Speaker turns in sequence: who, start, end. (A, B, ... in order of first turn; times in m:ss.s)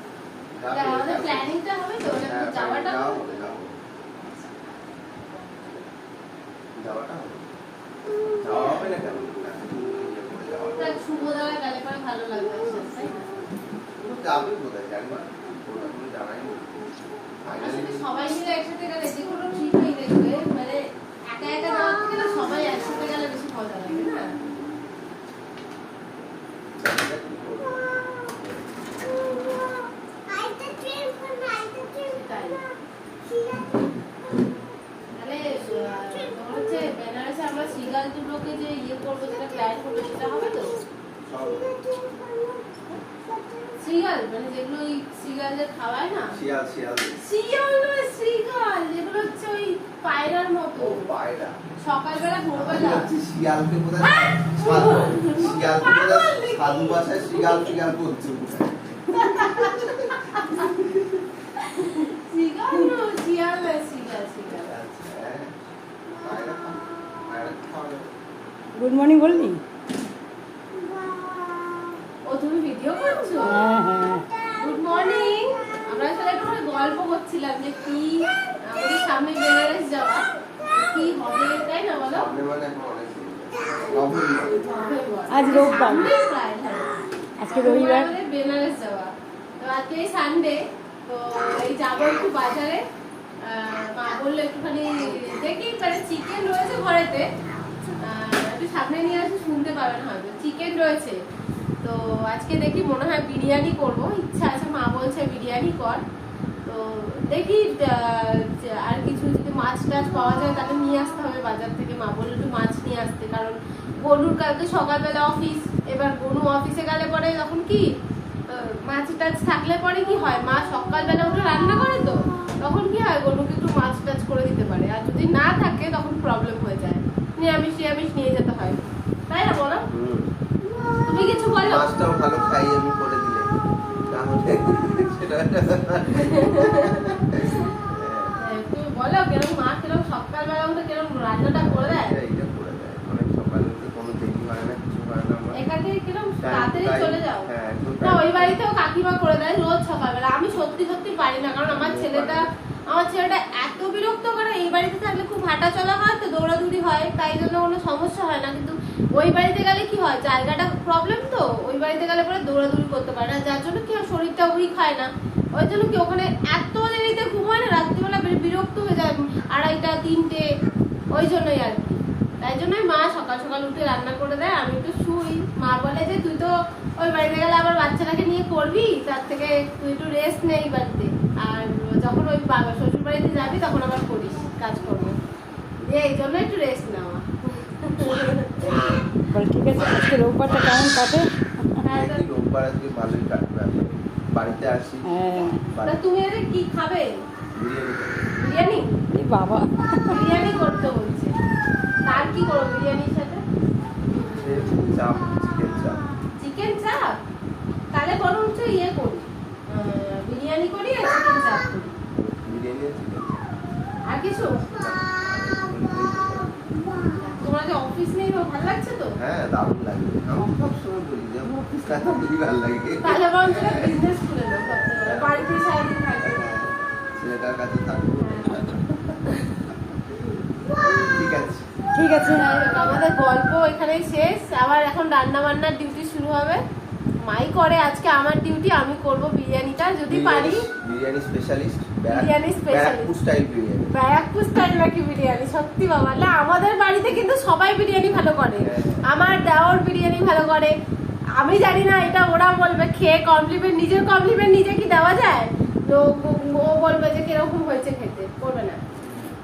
0:00.6-0:01.5 A
0:00.7-0:03.4 B
0:02.3-0:03.8 A
0:04.2-0:05.8 B
0:06.8-0:07.5 A
0:08.4-0:11.4 A
0:08.5-0:08.9 B
0:10.8-0:13.4 B
0:14.0-0:16.9 A
0:17.4-0:18.0 A
0:17.6-0:24.3 B
0:26.8-0:28.7 A
0:31.8-0:32.6 B
0:35.1-0:40.8 B
0:41.3-0:41.8 A
0:43.8-0:46.3 B
0:46.3-0:47.2 A
0:47.2-0:51.1 B
0:50.8-0:51.6 A
0:51.8-0:53.1 B
0:52.6-1:01.2 A
0:54.0-0:57.7 B
0:59.2-1:00.7 B
1:01.6-1:04.7 B
1:04.5-1:05.6 A
1:06.2-1:08.1 A
1:08.8-1:09.6 C
1:12.3-1:13.6 B
1:13.5-1:14.3 C
1:14.6-1:22.3 B
1:22.1-1:24.7 A
1:24.4-1:32.8 B
1:25.3-1:26.1 C
1:27.4-1:28.1 C
1:33.4-1:37.3 B
1:38.0-1:41.2 B
1:41.8-1:46.0 B
1:46.7-1:57.8 B
1:58.5-2:09.9 B
2:09.9-2:10.3 A
2:11.0-2:11.9 B
2:11.6-2:13.5 A
2:14.1-2:18.4 A
2:16.2-2:17.0 B
2:18.4-2:22.1 B
2:21.6-2:25.6 A
2:25.5-2:27.5 B
2:26.4-2:28.6 A
2:28.0-2:50.5 B
2:31.7-2:32.4 A
2:51.1-3:05.2 B
3:05.8-3:09.0 B
3:09.3-3:11.8 C
3:11.8-3:12.2 B
3:11.9-3:16.0 A
3:15.1-3:15.6 C
3:15.8-3:17.2 B
3:17.5-3:18.3 A
3:18.4-3:18.9 B
3:19.1-3:20.2 C
3:20.1-3:21.3 B
3:22.1-3:23.4 B
3:24.1-3:24.7 B
3:24.2-3:26.0 A
3:26.4-3:27.2 B
3:27.9-3:32.0 B
3:32.2-3:33.4 A
3:34.1-3:34.6 B
3:34.8-3:36.5 A
3:37.2-3:39.2 B
3:39.2-3:44.0 A
3:43.0-3:46.5 B
3:44.6-3:45.5 A
3:46.2-3:50.0 A
3:48.2-3:48.7 B
3:50.8-3:51.7 A
3:52.0-3:52.4 C
3:52.3-3:56.6 B
3:52.7-3:53.0 A
3:57.2-4:00.6 B
4:00.1-4:03.9 A
4:02.1-4:03.1 B
4:03.9-4:10.8 B
4:08.6-4:09.0 A
4:11.4-4:18.8 B